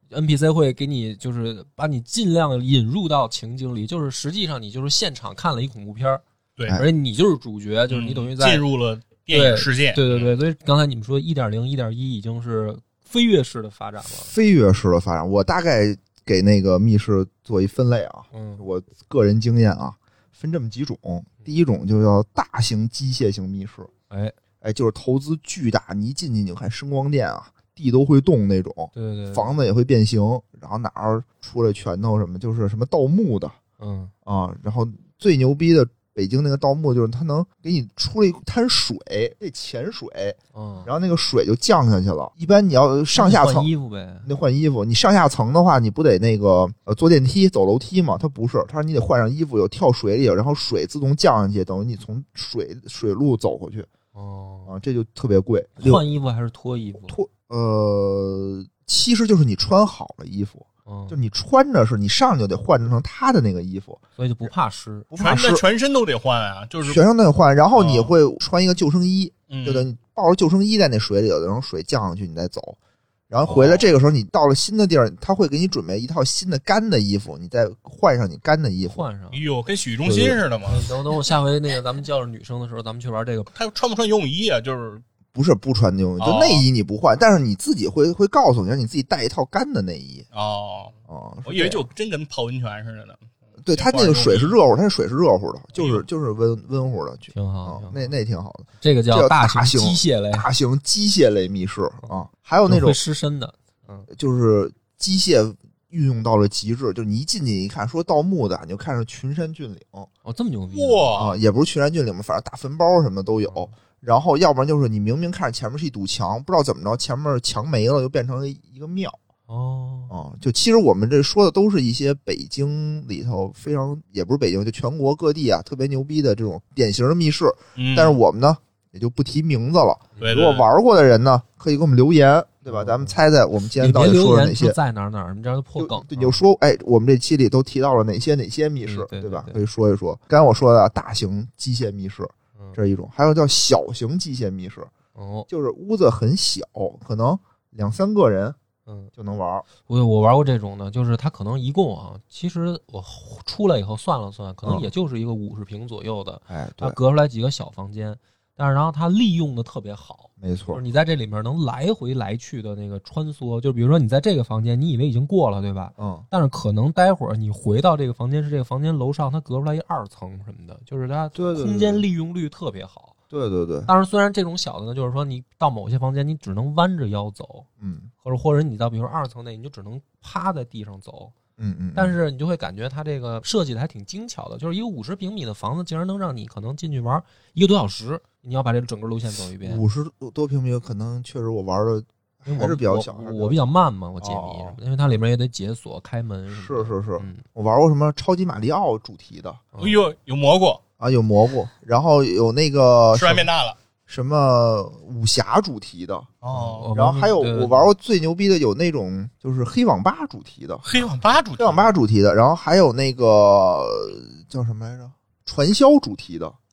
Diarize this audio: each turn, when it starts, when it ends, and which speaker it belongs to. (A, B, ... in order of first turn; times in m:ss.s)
0:00.1-0:08.6 A
0:06.6-0:06.8 B
0:07.9-0:10.3 B
0:09.3-0:14.3 A
0:14.2-0:23.9 C
0:18.3-0:18.6 A
0:24.1-0:24.3 A
0:24.6-0:33.6 C
0:28.9-0:29.5 A
0:33.8-0:34.1 A
0:34.2-0:43.7 C
0:40.5-0:40.9 A
0:43.1-0:44.3 A
0:44.2-0:53.9 C
0:54.1-0:54.7 A
0:54.7-0:56.0 C
0:55.8-0:57.2 A
0:57.1-1:04.5 C
1:00.9-1:01.2 A
1:04.2-1:05.1 A
1:05.1-1:05.6 C
1:05.2-1:07.0 B
1:06.8-1:12.8 C
1:07.7-1:08.1 B
1:09.5-1:09.9 B
1:13.3-1:19.0 C
1:13.5-1:13.9 B
1:18.8-1:19.4 A
1:19.3-1:20.8 B
1:20.0-1:23.5 A
1:23.5-1:25.0 B
1:25.3-1:30.2 C
1:26.2-1:26.6 B
1:30.3-1:30.9 B
1:31.1-1:31.8 C
1:31.4-1:34.5 B
1:33.6-1:43.0 C
1:35.8-1:36.0 B
1:37.3-1:38.0 A
1:38.8-1:40.4 A
1:42.0-1:44.1 A
1:44.1-1:50.1 C
1:50.2-1:51.2 A
1:50.7-1:51.4 B
1:51.1-1:59.2 C
1:53.4-1:53.7 A
1:59.5-2:00.1 A
2:00.1-2:14.8 C
2:07.8-2:08.2 B
2:10.2-2:10.7 B
2:12.7-2:13.2 A
2:13.8-2:16.4 A
2:15.8-2:24.9 C
2:18.8-2:19.6 A
2:25.1-2:25.5 A
2:25.5-2:28.6 C
2:28.8-2:29.1 A
2:29.1-2:29.6 C
2:29.8-2:53.1 A
2:36.5-2:37.0 C
2:40.4-2:40.8 C
2:46.0-2:46.2 C
2:51.3-2:52.0 C
2:53.3-2:53.9 C
2:53.9-2:57.7 A
2:57.8-2:58.1 C
2:58.2-3:01.3 A
3:01.6-3:02.2 C
3:01.9-3:09.8 A
3:09.6-3:13.6 C
3:12.4-3:17.4 A
3:14.2-3:14.8 C
3:16.5-3:19.6 C
3:19.7-3:20.0 A
3:19.8-3:20.8 B
3:21.0-3:23.5 C
3:23.1-3:23.8 B
3:24.1-3:26.3 C
3:26.4-3:26.9 B
3:26.5-3:27.9 A
3:26.9-3:31.0 C
3:30.8-3:31.9 B
3:31.6-3:36.6 C